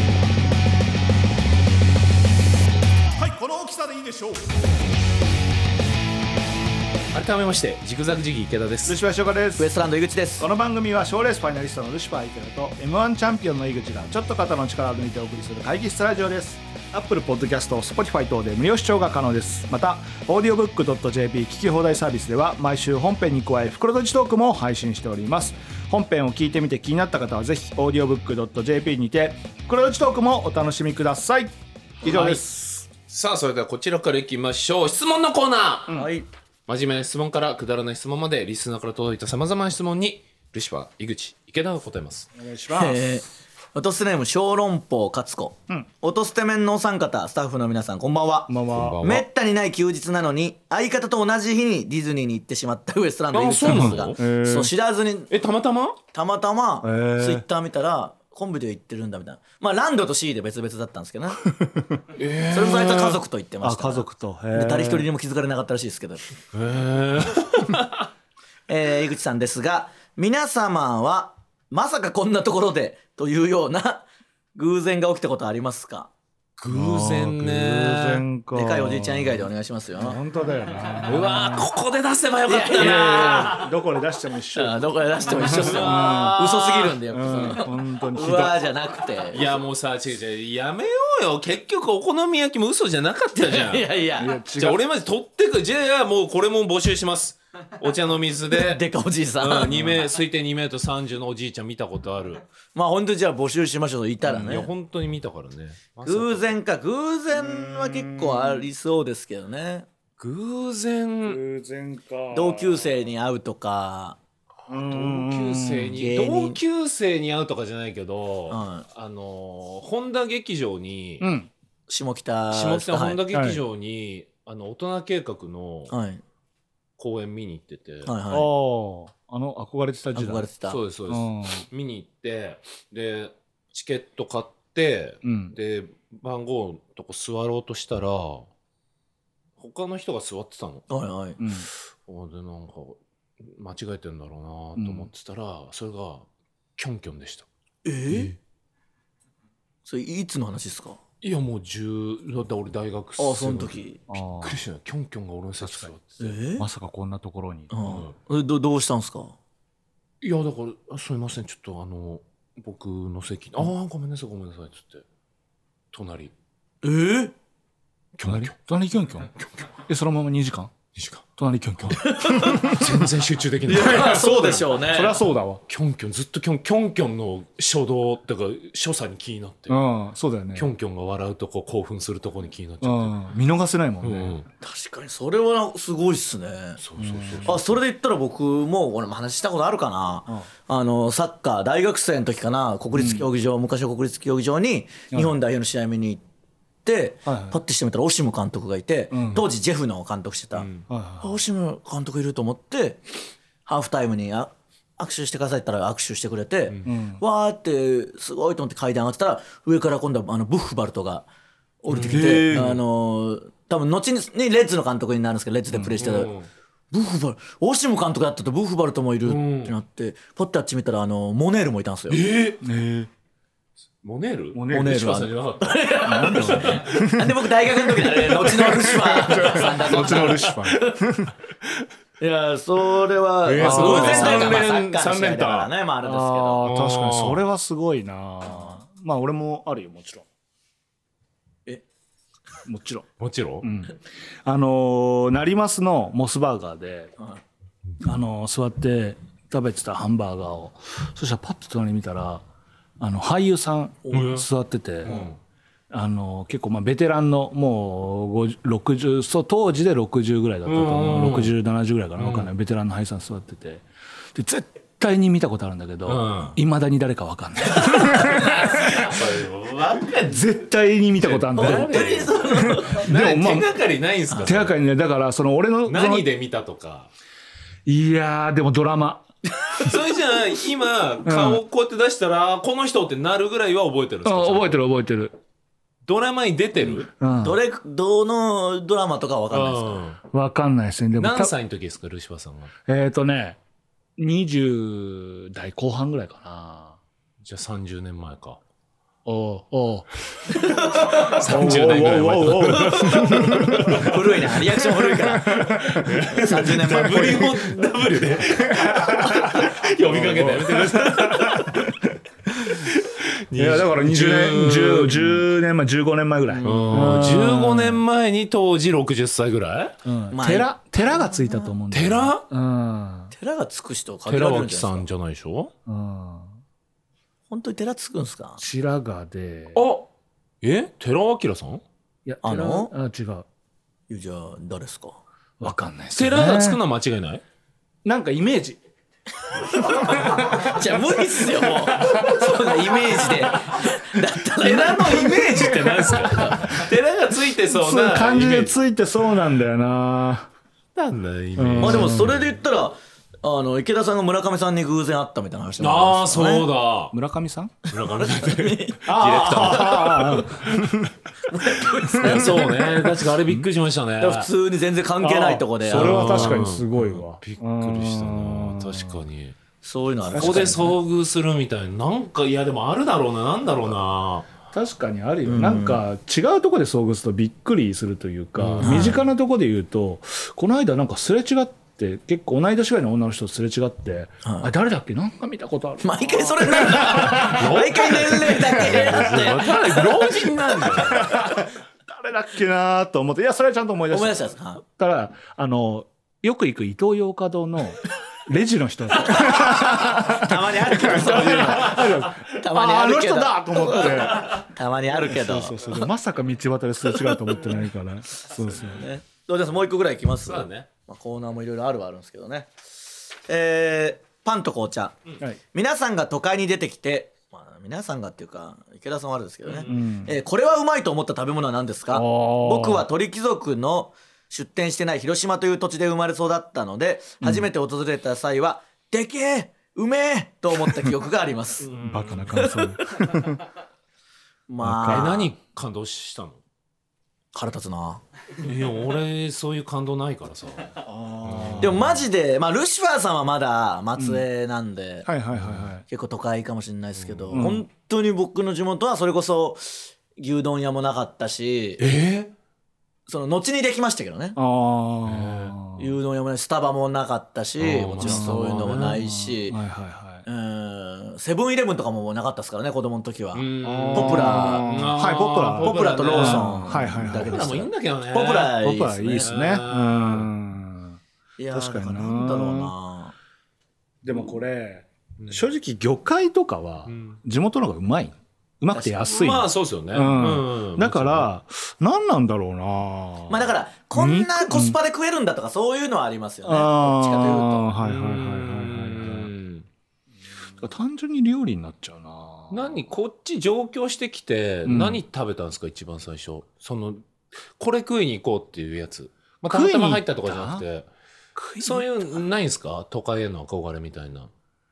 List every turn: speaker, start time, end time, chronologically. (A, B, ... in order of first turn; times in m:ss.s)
0:03.2-0:04.5 A
0:07.1-0:09.0 B
0:08.9-0:09.7 A
0:09.6-0:10.5 C
0:10.4-0:32.6 A
0:32.1-0:36.0 B
0:35.9-0:36.3 C
0:36.7-0:42.3 B
0:42.4-0:43.2 A
0:42.7-0:55.3 C
0:48.5-0:49.0 A
0:48.7-0:49.2 B
0:53.3-0:54.2 B
0:53.7-0:54.7 A
0:55.3-0:56.0 B
0:56.1-1:01.4 C
0:56.8-0:57.4 A
1:02.2-1:03.2 B
1:02.5-1:06.2 C
1:03.6-1:05.1 A
1:06.5-1:08.1 B
1:08.7-1:16.1 C
1:16.6-1:18.2 B
1:16.7-1:19.5 A
1:18.5-1:20.2 C
1:20.0-1:21.7 A
1:21.0-1:23.6 B
1:22.5-1:23.7 C
1:22.8-1:28.6 A
1:24.5-1:29.5 C
1:25.3-1:27.0 B
1:29.3-1:33.9 B
1:33.4-1:34.4 C
1:34.2-1:34.8 A
1:34.6-1:38.8 B
1:38.5-1:39.9 C
1:39.4-1:42.4 B
1:42.7-1:44.7 C
1:44.3-1:46.6 B
1:46.0-1:49.9 C
1:47.4-1:48.7 A
1:50.2-1:51.4 B
1:51.2-1:53.0 A
1:52.3-1:54.2 C
1:54.7-2:01.3 B
1:54.7-1:56.0 A
1:56.0-1:56.6 C
1:58.5-1:58.9 C
2:01.2-2:01.5 A
2:01.9-2:03.2 C
2:02.5-2:05.9 B
2:03.3-2:03.6 A
2:05.9-2:06.2 C
2:07.0-2:08.1 B
2:08.0-2:08.5 C
2:08.3-2:10.5 A
2:10.2-2:10.8 C
2:10.7-2:18.5 B
2:11.1-2:11.7 A
2:15.2-2:15.6 A
2:19.6-2:20.9 B
2:20.9-2:21.4 C
2:21.4-2:21.7 A
2:22.1-2:26.3 B
2:24.8-2:25.1 A
2:26.8-2:27.5 B
2:27.8-2:28.3 C
2:28.1-2:28.4 B
2:29.8-2:31.0 C
2:31.2-2:33.8 B
2:33.2-2:34.0 C
2:34.1-2:34.6 A
2:34.4-2:36.2 B
2:35.6-2:35.9 A
2:36.2-2:36.7 C
2:36.6-2:37.9 A
2:37.7-2:39.4 C
2:37.8-2:38.1 B
2:40.2-2:45.0 B
2:45.9-2:46.3 B
2:46.8-2:47.4 C
2:48.2-2:48.6 B
2:48.2-2:50.7 A
2:49.4-2:49.6 B
2:51.0-2:51.2 B
2:51.4-2:53.1 A
2:52.0-2:52.8 C
2:52.4-2:54.6 B
2:53.7-2:55.2 C
2:53.9-2:55.6 A
2:55.7-2:59.8 B
2:59.7-3:00.7 A
3:00.6-3:03.2 B
3:02.8-3:04.4 A
3:04.0-3:04.5 B
3:04.6-3:06.8 C
3:06.8-3:07.6 B
3:07.0-3:07.6 A
3:07.4-3:16.2 C
3:12.9-3:13.3 A
3:16.8-3:20.7 C
3:17.3-3:17.6 A
3:19.1-3:19.4 A
3:20.6-3:20.8 B
3:20.9-3:21.4 A
3:21.2-3:23.0 C
3:23.7-3:31.3 C
3:26.8-3:27.2 A
3:31.8-3:36.3 C
3:31.9-3:32.8 B
3:36.0-3:36.5 B
3:36.9-3:42.2 C
3:39.2-3:39.8 B
3:42.1-3:42.6 B
3:42.6-3:43.1 A
3:44.0-3:46.8 B
3:44.5-3:45.3 A
3:44.7-3:51.0 C
3:46.0-3:47.4 A
3:47.9-3:51.3 A
3:50.0-3:50.3 B
3:52.2-3:56.7 C
3:53.4-3:55.7 B
3:53.6-3:54.6 A
3:56.0-4:00.2 A
3:56.6-3:57.4 B
4:02.7-4:03.1 A
4:03.2-4:03.7 B
4:03.6-4:07.1 A
4:08.0-4:12.4 A
4:13.0-4:15.2 A
4:14.1-4:14.5 B
4:15.0-4:15.4 B
4:15.9-4:23.8 A
4:20.6-4:21.5 B
4:22.2-4:22.5 B
4:24.4-4:29.2 A
4:26.1-4:26.6 B
4:27.9-4:28.5 C
4:28.1-4:30.4 B
4:30.2-4:33.7 A
4:31.2-4:34.7 B
4:31.6-4:33.1 C
4:34.4-4:36.3 A
4:35.9-4:37.1 B
4:37.9-4:39.3 A
4:39.8-4:44.8 B
4:41.2-4:41.6 A
4:44.2-4:45.3 A
4:46.1-4:47.1 B
4:47.2-4:47.6 A
4:47.4-4:50.0 C
4:49.5-4:50.2 B
4:50.3-4:51.5 A
4:51.2-4:52.7 B
4:52.9-4:53.6 A
4:54.2-4:57.0 A
4:57.4-4:58.6 B
4:59.2-5:00.1 A
5:00.5-5:01.5 C
5:01.0-5:04.2 B
5:01.5-5:07.8 A
5:02.7-5:07.5 C
5:05.7-5:11.9 B
5:08.5-5:11.9 A
5:12.7-5:12.9 A
5:12.8-5:15.4 B
5:13.6-5:18.0 A
5:16.5-5:17.3 C
5:16.6-5:20.0 B
5:20.0-5:23.3 A
5:20.3-5:21.8 C
5:21.9-5:22.4 B
5:23.3-5:25.1 C
5:24.3-5:25.7 B
5:25.9-5:26.5 A
5:27.5-5:28.6 C
5:28.6-5:29.8 A
5:29.8-5:30.1 B
5:30.6-5:31.8 B
5:32.3-5:33.4 A
5:32.4-5:32.9 C
5:34.1-5:35.2 C
5:35.6-5:36.8 A
5:36.1-5:37.4 B
5:38.0-5:38.8 A
5:39.7-5:46.7 C
5:40.1-5:40.7 A
5:44.6-5:48.8 B
5:45.5-5:46.8 A
5:47.7-5:50.5 A
5:51.0-5:52.4 B
5:51.6-5:52.3 A
5:51.8-5:56.7 C
5:55.8-5:57.1 B
5:57.1-5:57.9 A
5:57.9-6:00.9 B
5:58.0-6:00.4 C
5:59.1-6:01.1 A
6:01.5-6:02.9 C
6:02.2-6:04.5 B
6:02.2-6:02.6 A
6:04.2-6:06.6 C
6:05.2-6:09.2 A
6:05.8-6:09.6 B
6:09.8-6:10.9 C
6:10.3-6:11.0 A
6:10.4-6:14.5 B
6:14.7-6:27.7 A
6:15.4-6:16.0 C
6:18.6-6:19.2 B
6:18.8-6:19.2 C
6:24.4-6:24.7 C
6:26.0-6:31.5 C
6:27.3-6:31.4 B
6:28.8-6:30.1 A
6:30.9-6:44.6 A
6:34.1-6:34.8 C
6:39.2-6:46.0 C
6:45.2-6:49.1 A
6:47.2-6:47.6 C
6:48.7-6:55.2 C
6:50.4-6:50.9 B
6:55.7-7:11.9 C
6:59.7-6:59.9 B
6:59.9-7:00.4 A
7:02.1-7:03.1 A
7:07.4-7:07.7 A
7:11.8-7:12.7 B
7:12.0-7:13.6 A
7:12.5-7:13.3 C
7:14.7-7:15.4 C
7:14.8-7:15.5 A
7:15.0-7:16.6 B
7:17.5-7:18.2 C
7:18.6-7:22.2 B
7:21.0-7:22.1 A
7:21.8-7:25.3 C
7:24.2-7:24.4 A
7:25.2-7:26.0 A
7:25.6-7:25.9 B
7:26.1-7:32.0 C
7:27.2-7:27.7 B
7:27.5-7:27.8 A
7:32.0-7:32.5 B
7:33.3-7:34.6 C
7:34.6-7:36.1 A
7:35.3-7:35.8 B
7:36.0-7:39.8 C
7:37.8-7:39.2 B
7:38.2-7:40.5 A
7:40.4-7:45.0 C
7:43.5-7:48.8 B
7:43.8-7:47.7 A
7:45.8-7:49.5 C
7:48.7-7:51.2 A
7:49.4-7:50.5 B
7:51.6-7:53.4 C
7:51.7-7:52.9 A
7:54.2-8:05.0 A
7:57.1-7:57.4 B
7:58.9-7:59.3 C
7:59.2-8:01.5 B
8:03.5-8:07.9 C
8:06.6-8:09.5 A
8:08.0-8:09.9 B
8:10.8-8:13.0 A
8:12.7-8:21.1 B
8:14.9-8:15.2 A
8:19.7-8:20.8 A
8:21.6-8:22.4 A
8:21.8-8:24.5 B